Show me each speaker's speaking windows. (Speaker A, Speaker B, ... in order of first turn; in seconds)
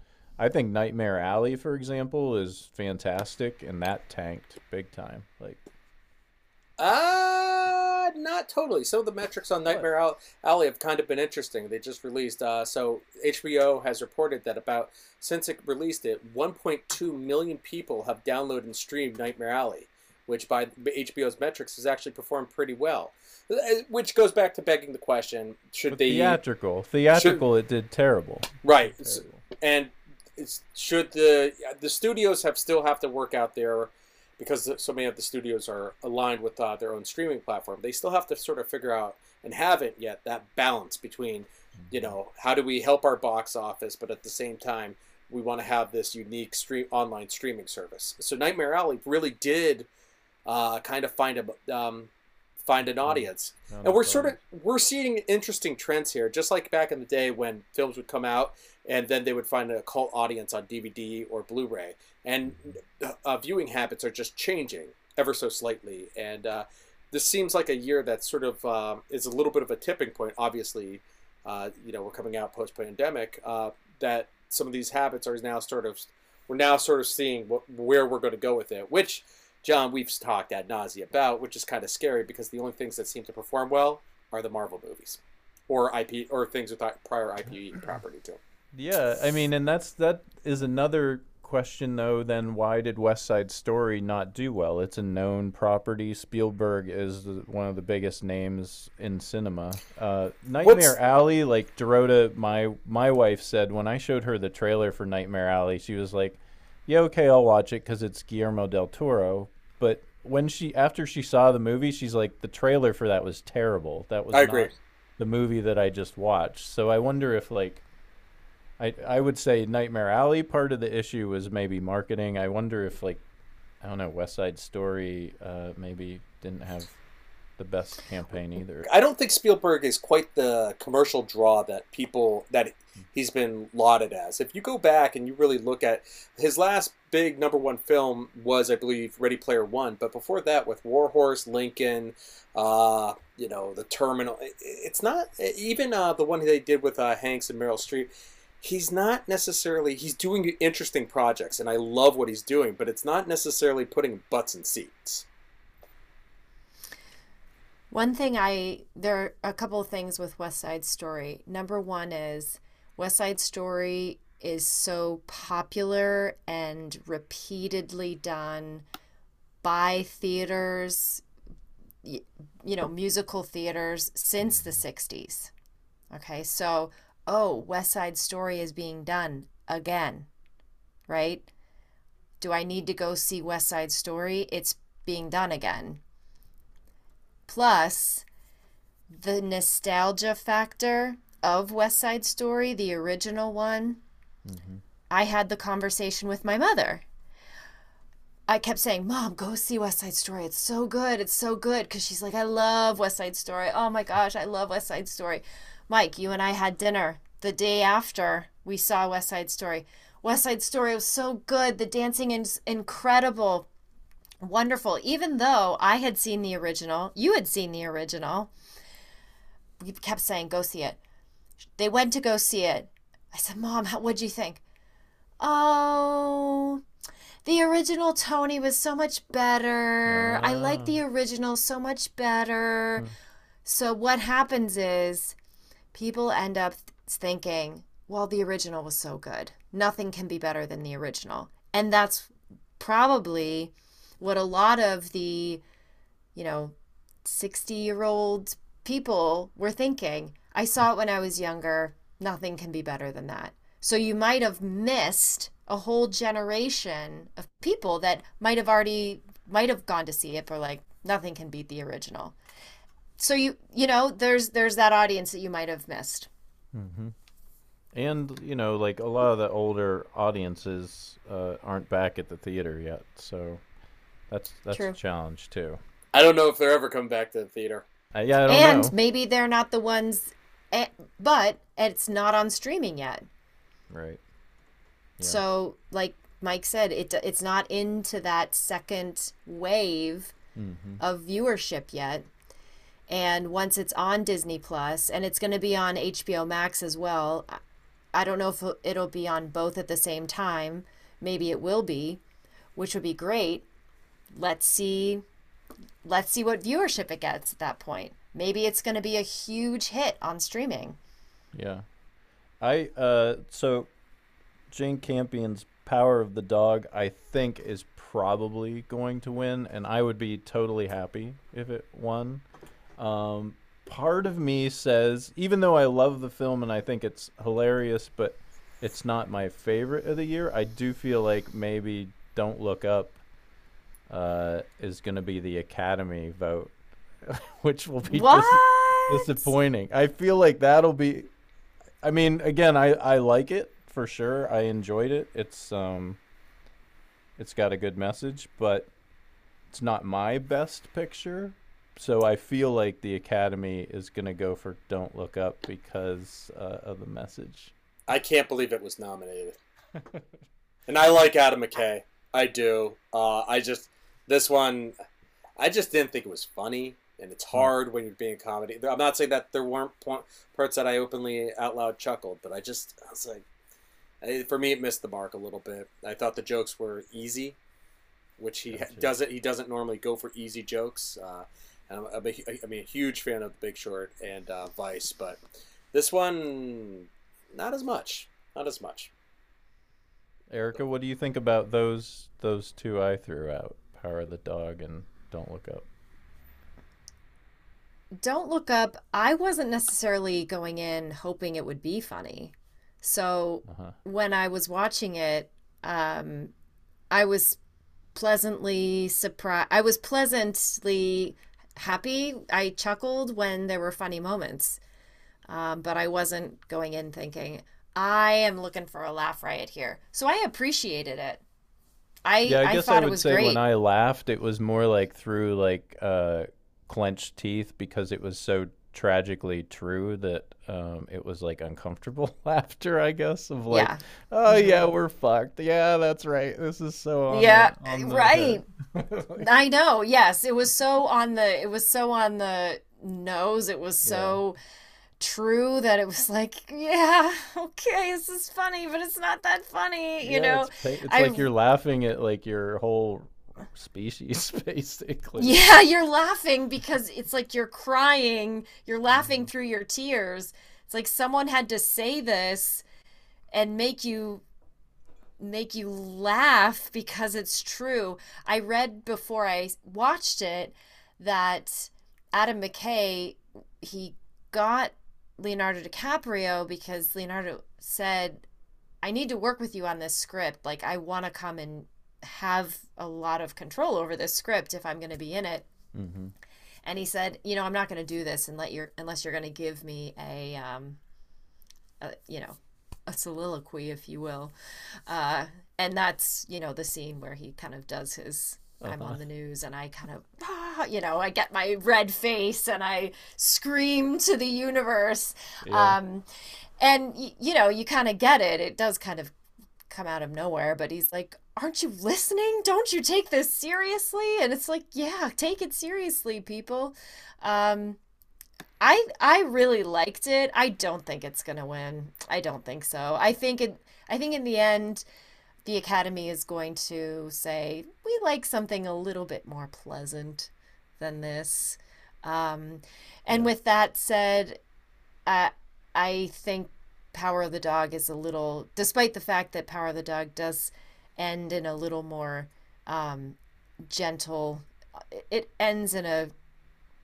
Speaker A: 0.4-5.6, 25.9-29.4, 41.8-42.1, 53.0-54.4, 88.7-117.8, 118.8-123.2, 123.8-127.0, 127.6-128.9, 194.4-194.8, 230.1-231.0, 266.7-267.1, 267.9-273.6, 274.3-275.8, 278.1-278.9, 283.9-284.2, 290.6-291.0, 311.5-311.8, 312.6-313.9, 314.7-322.4, 323.0-333.2, 334.1-341.3, 342.0-346.2, 347.4-348.9, 349.7-357.7, 378.7-379.1, 390.5-395.9, 403.7-403.9, 422.4-439.5, 444.0-444.4, 450.2-455.6, 459.1-459.4, 485.9-486.3, 498.8-499.2, 505.6-506.0
Speaker B: 6.8-26.4, 27.1-27.4, 28.6-49.9, 50.4-52.1, 52.6-88.4, 100.6-100.9, 114.3-114.7, 128.8-148.1, 148.6-155.2, 276.1-277.8, 358.1-359.5, 360.9-364.9, 365.6-373.4, 374.2-377.6, 378.4-385.4, 385.9-389.1
Speaker C: 157.9-168.8, 169.6-171.2, 172.0-175.5, 176.1-180.3, 181.1-181.5, 182.4-186.0, 187.5-188.2, 189.1-194.0, 195.1-197.0, 198.5-213.7, 214.4-218.5, 219.8-221.0, 221.8-224.6, 225.4-226.8, 227.4-233.1, 233.6-235.3, 235.9-245.6, 246.3-262.3, 263.2-266.3, 274.7-275.0, 278.5-283.2, 285.2-290.3, 291.0-292.2, 293.1-297.6, 298.1-302.2, 302.8-303.6, 304.3-305.2, 306.0-311.0, 338.1-339.5, 398.1-406.5, 407.1-407.6, 408.1-414.8, 415.5-421.4, 422.2-423.6, 433.7-434.9, 437.3-438.6, 439.4-444.6, 445.2-451.5, 455.4-462.8, 463.5-464.4, 465.4-478.4, 479.0-485.7, 486.8-491.0, 492.0-494.5, 495.1-506.2, 506.8-509.3, 509.9-518.0, 518.8-525.0, 525.6-534.6, 535.2-546.3